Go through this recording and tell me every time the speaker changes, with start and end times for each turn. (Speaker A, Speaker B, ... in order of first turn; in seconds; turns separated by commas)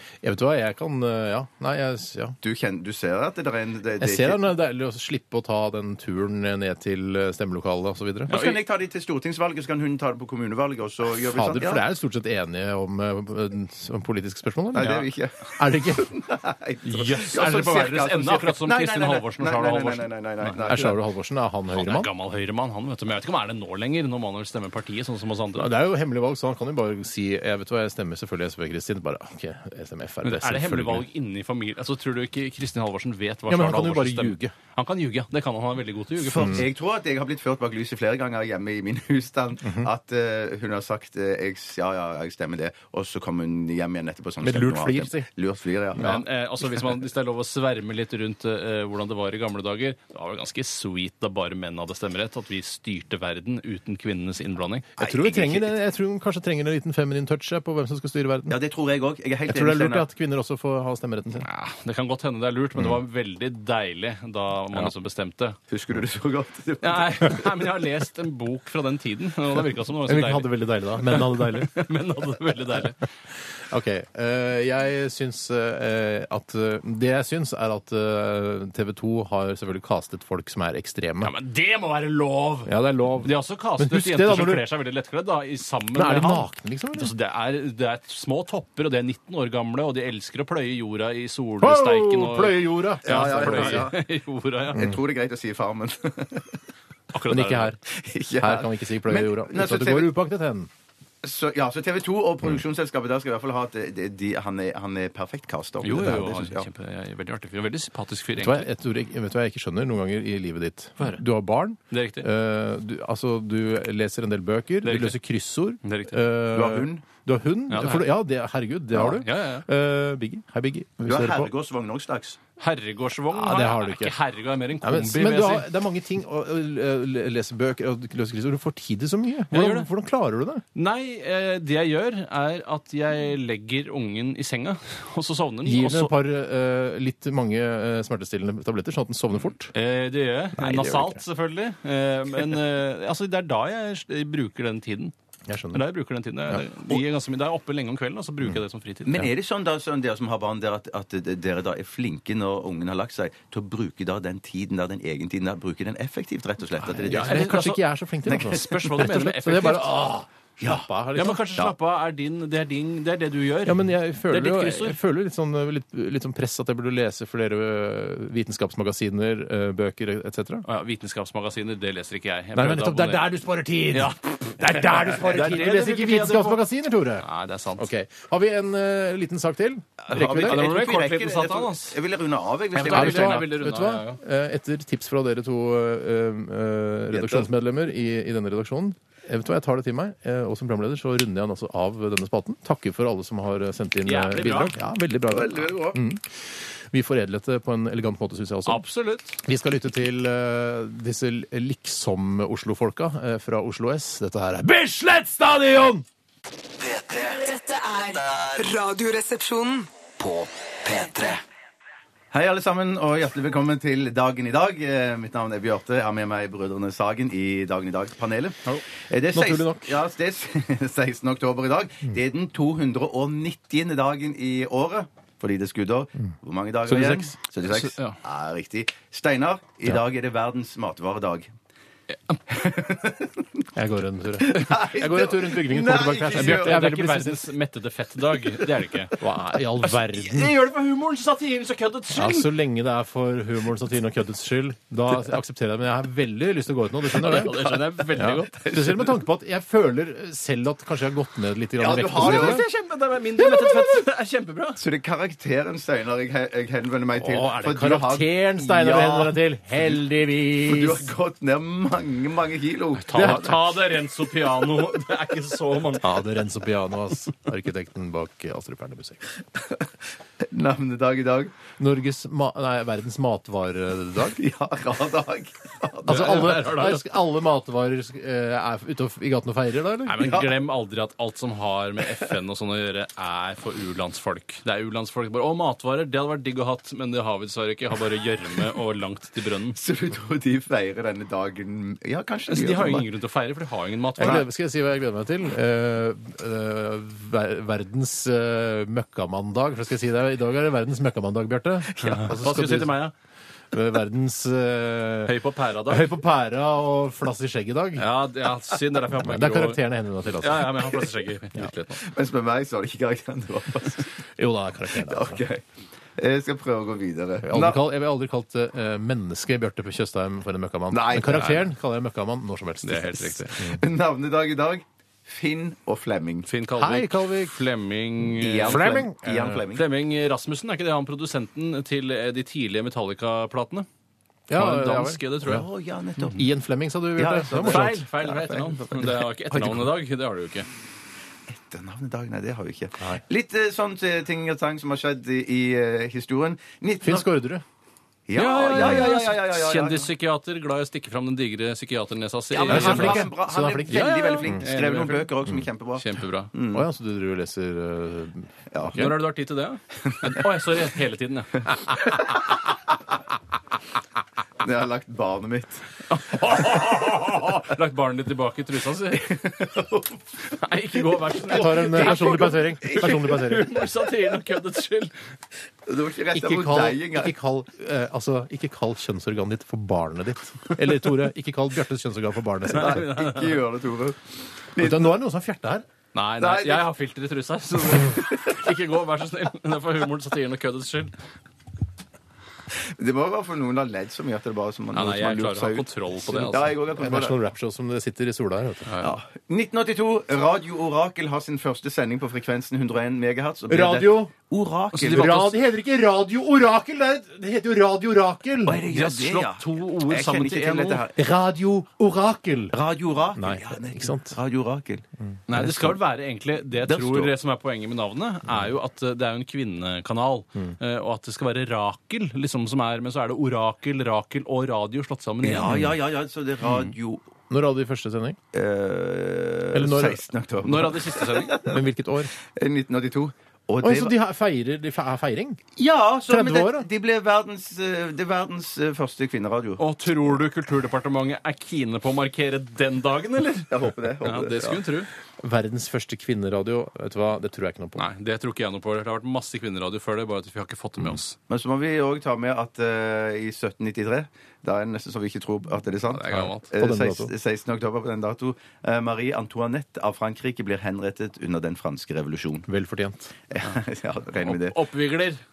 Speaker A: 0.2-2.4, Speaker B: 2.4-4.4, Speaker A: 4.0-8.4, Speaker B: 8.3-11.8, Speaker C: 8.3-8.6, Speaker A: 11.3-15.1, Speaker B: 14.7-21.0, Speaker A: 15.6-16.1, Speaker C: 16.8-20.9, Speaker A: 20.7-22.1, Speaker C: 21.7-25.7, Speaker A: 25.6-31.0, Speaker C: 30.2-36.6, Speaker A: 33.5-34.5, Speaker B: 36.2-46.2, Speaker A: 36.4-36.6, Speaker A: 44.4-45.3, Speaker A: 46.0-46.2, Speaker C: 46.0-54.9, Speaker B: 55.0-55.8, Speaker A: 55.0-58.6, Speaker B: 58.5-60.1, Speaker A: 59.5-61.5, Speaker C: 61.4-65.6, Speaker B: 65.7-67.5, Speaker C: 66.8-73.0, Speaker A: 70.0-71.7, Speaker A: 73.7-81.3, Speaker C: 81.2-94.9, Speaker A: 82.7-84.7, Speaker A: 85.9-87.1, Speaker A: 91.6-93.9, Speaker B: 93.0-94.0, Speaker B: 94.7-96.6, Speaker A: 94.7-95.0, Speaker C: 97.1-97.8, Speaker A: 97.3-97.8, Speaker B: 97.9-100.1, Speaker A: 98.4-100.7, Speaker B: 101.2-106.7, Speaker C: 105.8-108.7, Speaker A: 108.4-121.5, Speaker C: 111.9-112.3, Speaker C: 114.8-115.2, Speaker C: 115.8-116.2, Speaker B: 116.5-117.0, Speaker C: 117.7-118.1, Speaker C: 119.0-119.7, Speaker B: 121.0-122.4, Speaker C: 122.6-125.7, Speaker A: 123.3-124.2, Speaker A: 124.8-130.6, Speaker C: 129.5-129.9, Speaker C: 130.7-136.1, Speaker A: 135.6-139.7, Speaker C: 139.7-145.1, Speaker A: 140.6-141.2, Speaker A: 145.5-145.8, Speaker C: 145.7-149.2, Speaker A: 146.5-147.0, Speaker B: 149.1-157.6, Speaker A: 156.9-161.4, Speaker C: 157.0-157.8, Speaker B: 158.3-158.9, Speaker C: 158.3-160.0, Speaker C: 161.1-165.0, Speaker A: 163.6-170.6, Speaker C: 170.7-173.3, Speaker A: 172.5-177.2, Speaker C: 173.9-176.6, Speaker C: 177.2-177.9, Speaker A: 177.8-180.7, Speaker B: 180.1-183.5, Speaker C: 180.1-182.0, Speaker C: 182.7-184.2, Speaker A: 182.8-198.8, Speaker B: 187.1-187.5, Speaker C: 194.0-194.8, Speaker B: 195.3-196.0, Speaker C: 198.7-199.4, Speaker A: 199.4-206.0, Speaker D: 206.8-208.5, Speaker E: 207.4-209.9, Speaker D: 210.2-211.4, Speaker B: 212.3-231.5, Speaker A: 219.3-220.0, Speaker A: 226.8-227.3, Speaker C: 227.7-228.2, Speaker B: 232.5-233.6, Speaker A: 233.7-237.5, Speaker B: 234.4-236.8, Speaker C: 236.3-239.2, Speaker A: 239.2-240.5, Speaker C: 240.1-242.5, Speaker A: 242.1-252.6, Speaker C: 247.1-248.9, Speaker B: 247.3-247.8, Speaker B: 248.6-248.9, Speaker B: 251.8-252.6, Speaker C: 252.1-254.8, Speaker B: 254.8-259.4, Speaker A: 257.2-261.1, Speaker B: 260.6-263.7, Speaker C: 263.0-266.1, Speaker A: 263.1-263.5, Speaker A: 266.0-269.2, Speaker B: 269.6-269.9, Speaker B: 270.4-271.5, Speaker A: 271.8-274.4, Speaker B: 274.4-276.5, Speaker A: 276.1-280.5, Speaker C: 276.1-277.0, Speaker C: 280.1-289.8, Speaker B: 280.2-280.5, Speaker B: 289.7-293.1, Speaker C: 292.5-294.4, Speaker A: 294.2-303.0, Speaker B: 301.9-302.3, Speaker C: 302.0-303.1, Speaker A: 303.7-305.3, Speaker C: 305.2-306.1, Speaker A: 305.9-308.1, Speaker C: 308.0-309.8, Speaker A: 309.1-311.0, Speaker C: 310.4-312.0, Speaker B: 312.0-314.1, Speaker A: 314.4-315.4, Speaker B: 315.0-315.6, Speaker B: 316.2-317.8, Speaker A: 317.4-323.8, Speaker B: 320.9-321.6, Speaker C: 322.8-323.5, Speaker B: 323.6-326.5, Speaker C: 326.5-329.0, Speaker A: 326.8-327.5, Speaker B: 328.3-329.8, Speaker A: 328.6-329.6, Speaker C: 329.7-333.9, Speaker A: 334.5-335.6, Speaker C: 334.5-335.6, Speaker B: 335.4-336.4, Speaker A: 336.3-338.0, Speaker B: 337.1-339.1, Speaker C: 337.6-340.7, Speaker A: 339.5-339.8, Speaker B: 341.5-347.3, Speaker A: 347.0-347.6, Speaker B: 348.3-350.1, Speaker C: 348.4-353.3, Speaker A: 348.8-349.1, Speaker B: 352.5-356.9, Speaker A: 352.7-354.6, Speaker C: 353.9-355.3, Speaker C: 356.0-356.5, Speaker A: 356.7-359.1, Speaker B: 358.7-359.2, Speaker C: 359.0-361.7, Speaker B: 362.0-362.4, Speaker B: 364.6-365.9, Speaker C: 366.1-369.4, Speaker B: 369.1-370.2, Speaker C: 370.5-375.1, Speaker B: 371.1-373.4, Speaker A: 371.5-373.7, Speaker B: 375.9-377.4, Speaker A: 376.3-383.1, Speaker C: 382.7-383.6, Speaker B: 382.7-384.2, Speaker B: 384.7-385.1, Speaker A: 384.8-385.9, Speaker C: 386.1-391.1, Speaker B: 386.4-386.9, Speaker B: 388.1-388.6, Speaker B: 392.8-397.4, Speaker C: 394.9-396.7, Speaker A: 397.0-398.9, Speaker C: 398.9-399.2, Speaker B: 399.0-405.5, Speaker A: 403.7-404.3, Speaker C: 404.9-405.5, Speaker A: 405.0-408.8, Speaker B: 408.6-411.2, Speaker C: 408.9-411.0, Speaker A: 411.1-412.8, Speaker B: 412.7-415.0, Speaker A: 413.4-414.4, Speaker C: 415.5-425.8, Speaker A: 415.5-415.9, Speaker B: 416.8-417.3, Speaker B: 425.4-427.3, Speaker A: 425.6-426.0, Speaker A: 427.5-428.4, Speaker B: 428.5-431.8, Speaker A: 429.7-430.2, Speaker C: 430.6-431.6, Speaker A: 431.7-432.3, Speaker B: 432.4-434.1, Speaker A: 433.8-435.7, Speaker B: 435.8-439.8, Speaker A: 436.3-436.9, Speaker C: 439.8-445.1, Speaker B: 443.7-444.9, Speaker A: 445.4-448.1, Speaker C: 448.0-451.4, Speaker B: 451.5-462.7, Speaker C: 456.1-456.7, Speaker A: 456.3-457.3, Speaker A: 462.7-463.3, Speaker B: 463.5-464.8, Speaker C: 464.4-465.4